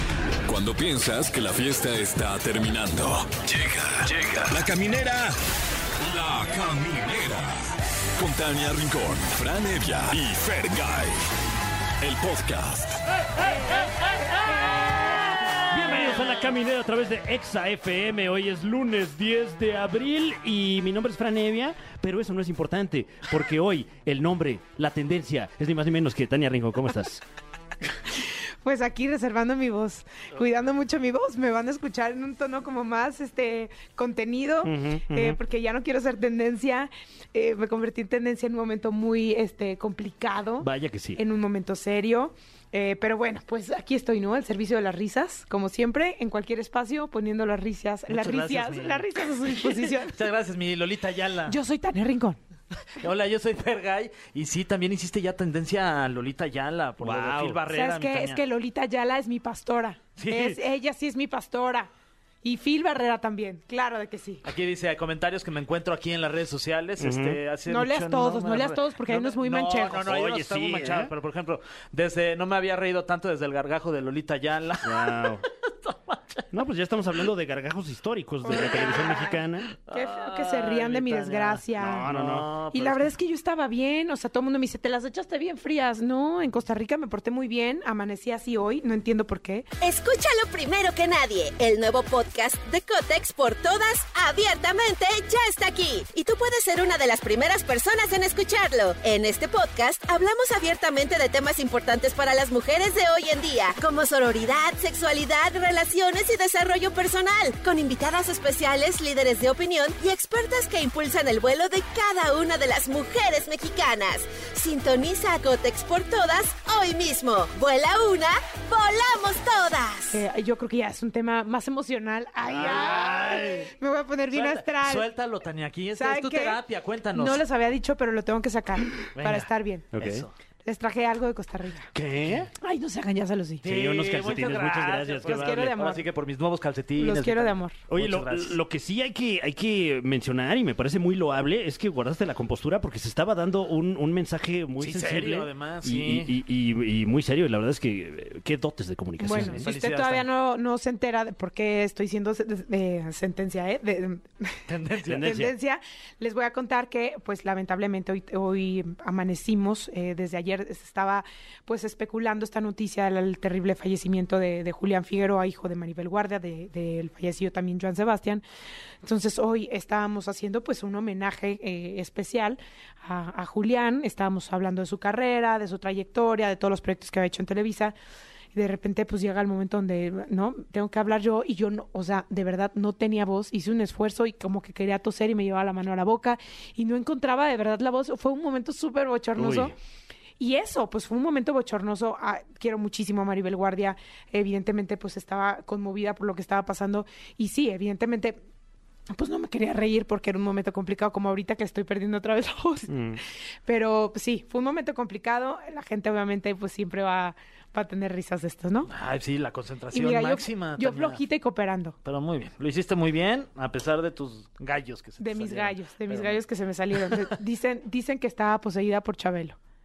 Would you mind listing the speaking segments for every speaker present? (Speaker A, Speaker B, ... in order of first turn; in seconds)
Speaker A: 0.5-5.4, 6.0-11.2, 12.0-13.0
Speaker B: 14.5-14.9, 15.7-27.2, 34.6-35.4, 40.6-41.2, 57.0-57.6, 67.0-67.4, 70.0-71.1, 74.8-75.5, 76.5-79.7, 81.8-82.5, 129.9-130.3, 131.9-132.5, 133.7-135.8, 137.9-149.7, 155.1-155.6, 189.4-189.7, 202.9-203.2
Speaker C: 15.9-16.2, 48.1-51.6, 53.0-58.4, 60.2-60.6, 64.4-76.4, 79.8-83.1, 122.4-123.7, 124.3-127.4, 129.2-130.3, 133.6-138.6, 144.8-146.3, 149.3-150.3, 154.7-155.5, 208.9-211.2, 212.1-216.4
Speaker D: 28.6-50.2, 51.5-52.4, 57.7-61.9, 62.4-64.5, 67.7-70.1, 78.4-82.1, 82.7-89.7, 120.1-125.1, 125.9-126.6, 127.1-129.9, 130.7-131.9, 132.6-133.7, 135.2-136.1, 137.0-137.8, 149.2-168.4, 169.0-178.0, 178.6-189.7, 190.4-198.4, 199.1-202.9, 203.7-208.9, 209.9-212.0, 215.2-219.6
Speaker E: 89.8-120.2